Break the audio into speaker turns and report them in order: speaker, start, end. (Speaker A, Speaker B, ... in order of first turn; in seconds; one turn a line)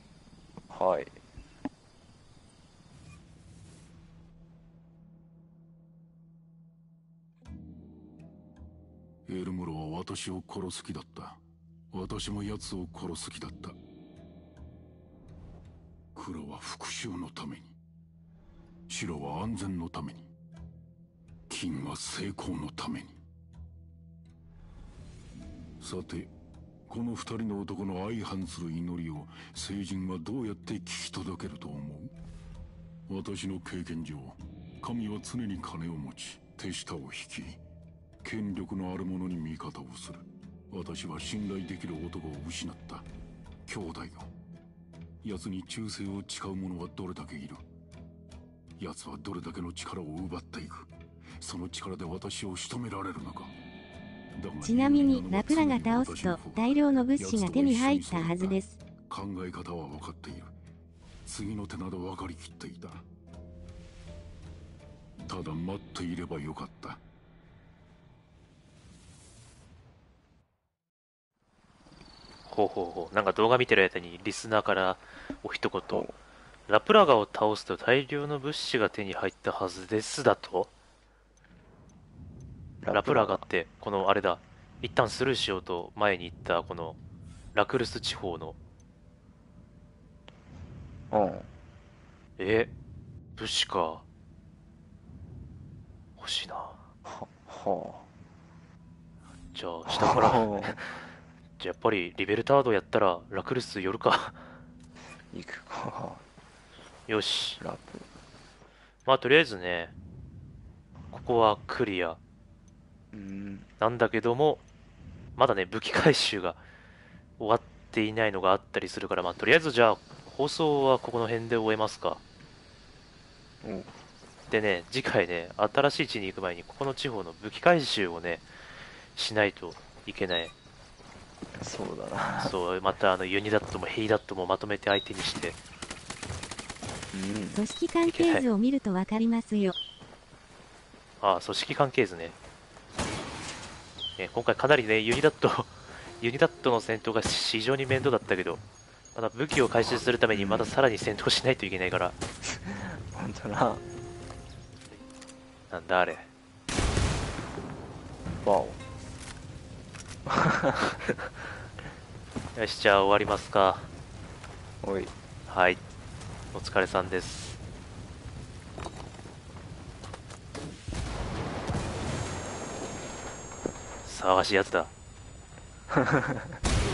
Speaker A: 0.7-1.1
Speaker B: 9.3-11.4
Speaker B: 11.9-13.8
Speaker B: 16.1-17.7
Speaker B: 18.9-20.3
Speaker B: 21.5-23.2
Speaker B: 25.8-26.3
Speaker B: 26.9-32.1
Speaker B: 33.1-37.6
Speaker B: 38.2-43.0
Speaker B: 43.7-44.3
Speaker B: 45.2-47.6
Speaker B: 48.8-53.5
Speaker B: 54.4-60.5
Speaker C: 54.6-58.8
Speaker B: 61.3-63.0
Speaker B: 65.2-67.0
Speaker D: 72.5-76.1
Speaker A: 75.9-76.1
Speaker D: 76.7-80.7
Speaker A: 82.8-83.4
Speaker D: 82.9-87.0
Speaker D: 87.5-88.6
Speaker A: 91.1-91.5
Speaker D: 92.4-92.7
Speaker D: 93.4-94.0
Speaker D: 96.2-96.8
Speaker A: 97.0-98.1
Speaker D: 99.5-101.0
Speaker A: 99.9-100.8
Speaker D: 101.6-104.4
Speaker A: 105.3-106.2
Speaker D: 107.1-107.6
Speaker A: 107.6-108.1
Speaker D: 109.1-109.9
Speaker D: 111.1-112.2
Speaker A: 113.1-113.7
Speaker D: 113.8-114.6
Speaker D: 115.4-116.6
Speaker D: 117.4-122.2
Speaker A: 123.6-123.9
Speaker D: 124.5-128.5
Speaker D: 129.2-130.5
Speaker A: 131.6-132.6
Speaker D: 132.4-135.6
Speaker A: 137.1-137.6
Speaker C: 137.5-139.8
Speaker D: 138.1-138.4
Speaker D: 141.2-142.4
Speaker D: 144.2-148.6
Speaker D: 149.2-152.2
Speaker A: 150.3-150.8
Speaker A: 152.4-153.8
Speaker D: 155.7-156.3
Speaker A: 158.4-158.8
Speaker A: 160.3-161.0
Speaker D: 162.6-163.9
Speaker A: 164.8-165.1
Speaker D: 165.5-165.8
Speaker D: 166.5-167.6
Speaker D: 174.1-174.9
Speaker A: 175.9-176.5